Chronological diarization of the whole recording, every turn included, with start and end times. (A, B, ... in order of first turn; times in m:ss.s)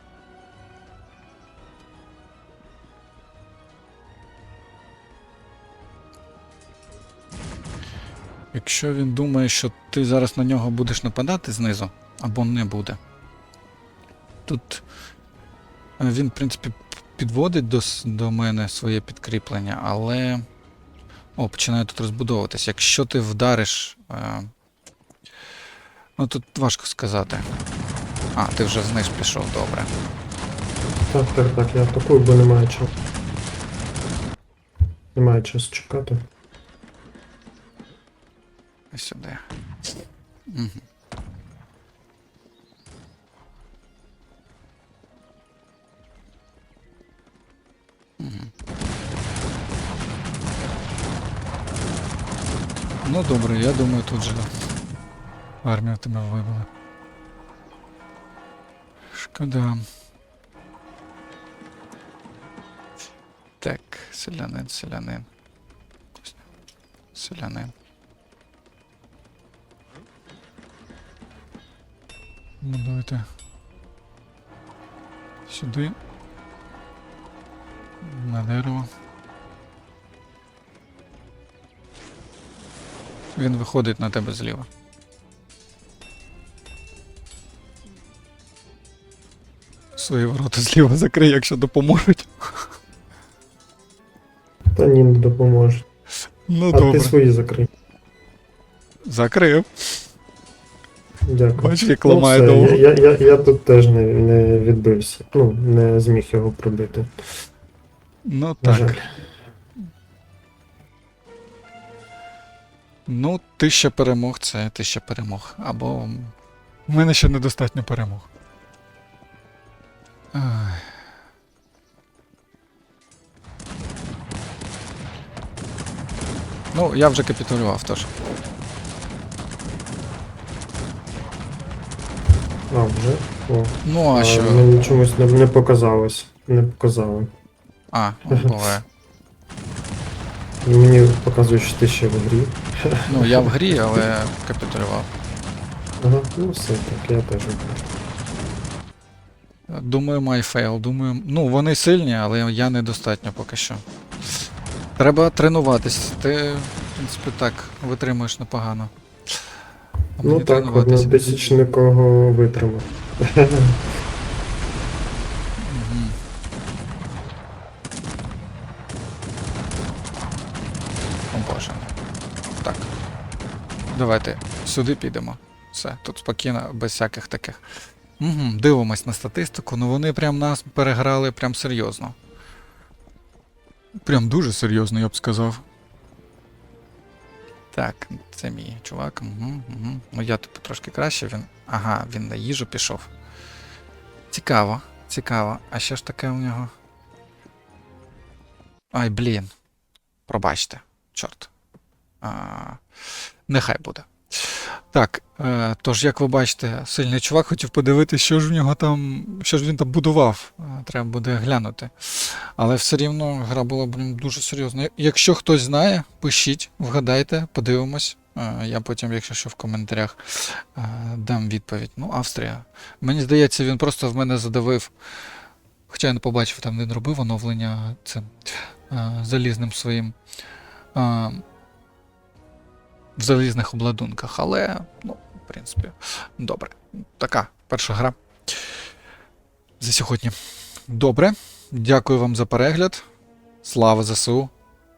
0:08.5-0:13.0 A
0:14.4-0:14.8 A
0:16.0-0:20.4 A
0:21.4-0:24.5 A
0:26.2-0:27.5 A
0:28.4-0:29.9 A
0:31.1-0:32.9 B
0:35.1-0:36.2 B
0:38.9-0:39.4 A
0:40.5-0:40.8 A
0:48.2-0:48.5 A
0:53.0-0:54.5 A
0:55.6-0:56.7 A
0:59.1-0:59.9 A
1:03.6-1:05.3 A
1:07.1-1:07.7 A
1:12.6-1:13.3 A
1:15.5-1:16.0 A
1:18.0-1:18.9 A
1:23.4-1:24.7 A
1:29.9-1:32.7 A
1:34.8-1:35.8 B
1:36.5-1:37.1 A
1:36.7-1:37.7 B
1:39.0-1:39.7 A
1:41.2-1:47.1 B
1:41.6-1:42.8 A
1:48.2-1:49.0 A
1:48.6-1:49.1 B
1:53.0-1:56.4 A
1:56.9-1:58.3 A
2:00.3-2:01.1 A
2:06.7-2:08.1 A
2:12.7-2:17.3 B
2:13.8-2:14.7 A
2:17.9-2:18.9 A
2:18.3-2:18.7 B
2:20.6-2:23.5 B
2:23.1-2:25.1 A
2:26.0-2:27.9 B
2:29.7-2:33.8 A
2:35.0-2:38.9 A
2:40.2-2:41.4 A
2:40.2-2:43.8 B
2:45.6-2:46.2 A
2:51.3-2:52.0 A
2:52.6-2:52.9 A
2:53.9-3:02.2 A
3:04.0-3:05.6 A
3:07.7-3:13.1 A
3:14.3-3:16.7 A
3:18.9-3:19.5 A
3:20.3-3:21.5 A
3:22.2-3:50.2 A
3:50.9-3:51.4 A
3:53.2-3:58.8 A
3:59.8-4:03.0 A
4:03.6-4:04.5 A